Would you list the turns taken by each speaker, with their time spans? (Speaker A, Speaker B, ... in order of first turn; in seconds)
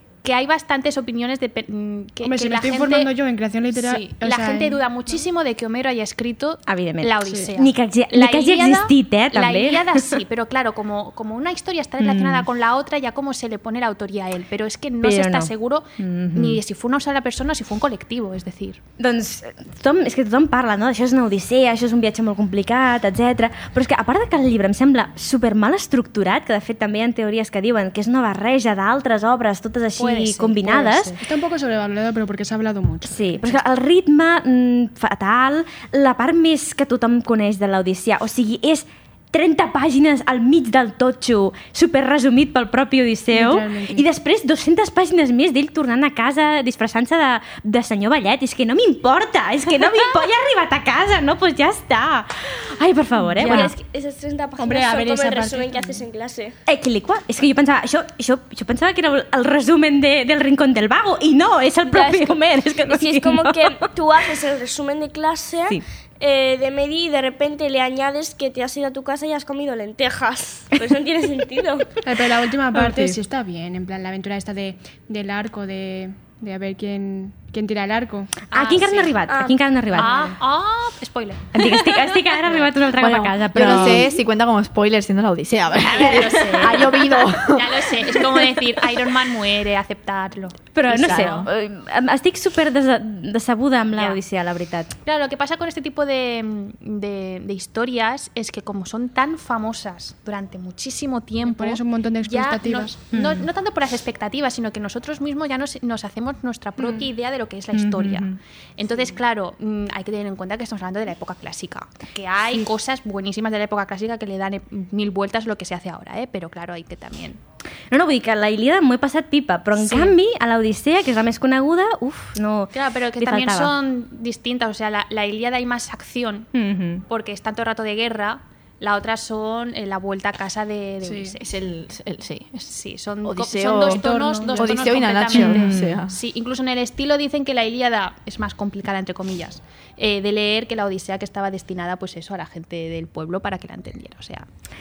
Speaker A: 0.2-3.1, 3.7-18.8, 30.0-31.2, 78.5-79.2, 79.9-82.6, 83.6-84.1, 85.8-91.5, 95.0-117.4, 119.8-120.2, 122.7-126.5, 127.1-131.4, 132.7-144.4
Speaker B: 2.2-4.8, 31.2-33.5, 43.3-44.0, 53.2-53.7, 54.6-56.0, 72.0-78.3, 101.4-103.0, 106.8-107.1, 131.0-131.4, 133.7-135.1
Speaker C: 6.7-10.1, 12.0-12.4, 15.0-16.6, 19.0-31.2, 33.0-53.7, 56.7-63.8, 72.7-73.2, 78.5-80.4, 81.5-84.1, 90.7-94.9, 103.1-103.5, 107.7-108.3, 117.9-123.7, 126.5-127.0, 135.3-136.0
Speaker D: 53.4-56.5, 61.9-71.9, 79.3-79.6
Speaker E: 82.9-88.0, 90.9-91.5, 131.4-132.7, 133.2-136.2